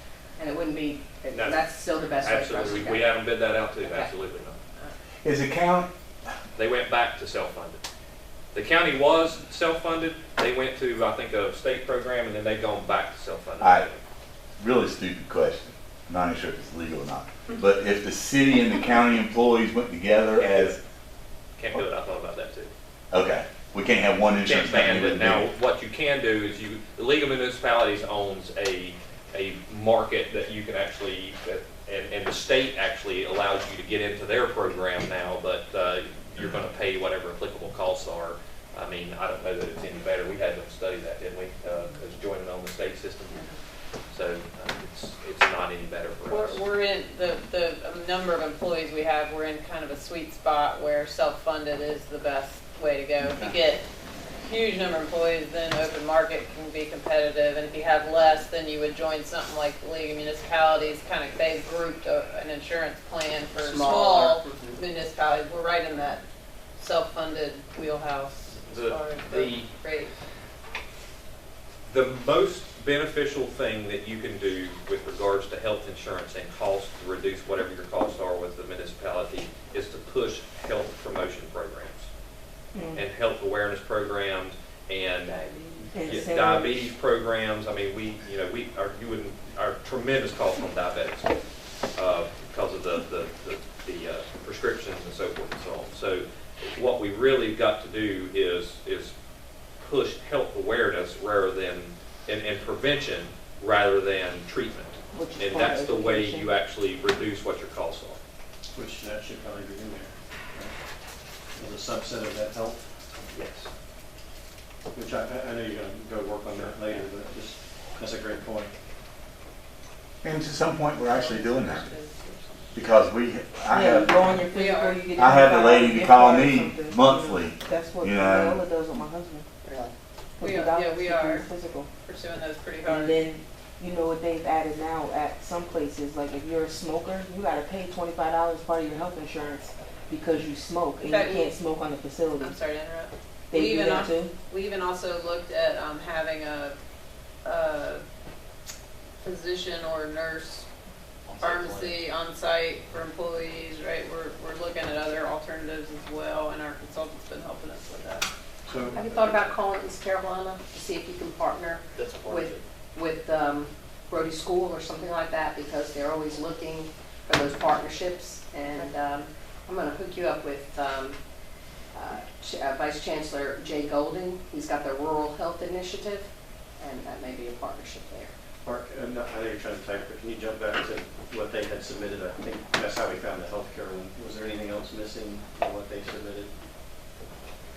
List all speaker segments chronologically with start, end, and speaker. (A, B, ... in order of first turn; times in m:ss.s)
0:00.4-0:03.2 A
0:01.3-0:01.7 B
0:02.2-0:04.6 B
0:03.8-0:04.1 A
0:05.2-0:05.9 C
0:06.6-0:07.8 B
0:08.5-0:14.0 B
0:13.6-0:13.9 C
0:14.6-0:20.8 C
0:20.3-0:20.8 B
0:21.6-0:22.7 B
0:23.1-0:25.5 C
0:24.4-0:43.4 B
0:44.1-0:46.6 B
0:46.3-0:53.8 D
0:54.4-1:06.2 D
1:03.6-1:04.8 A
1:06.8-1:10.1 D
1:08.7-1:09.7 B
1:11.9-1:22.1 B
1:22.7-1:23.0 E
1:22.9-1:25.4 B
1:25.9-1:26.9 E
1:26.0-1:31.3 B
1:32.0-1:39.1 B
1:39.8-1:48.2 B
1:45.1-1:46.5 E
1:48.7-1:50.7 F
1:51.6-1:52.8 F
1:53.3-1:53.7 B
1:54.9-1:58.7 F
2:00.2-2:01.9 C
2:01.1-2:02.7 D
2:02.7-2:04.2 C
2:03.7-2:09.5 E
2:04.5-2:05.1 D
2:05.1-2:08.6 C
2:09.6-2:09.9 A
2:10.4-2:11.9 E
2:10.4-2:11.5 D
2:12.0-2:13.2 D
2:12.8-2:22.5 E
2:21.0-2:21.5 D
2:22.4-2:26.8 D
2:23.5-2:24.3 E
2:27.4-2:28.0 D
2:29.2-2:30.7 D
2:31.4-2:38.3 D
2:38.7-2:39.5 F
2:38.9-2:51.2 A
2:42.0-2:42.6 F
2:51.9-2:56.3 A
2:56.8-2:58.3 A
2:58.6-3:06.5 F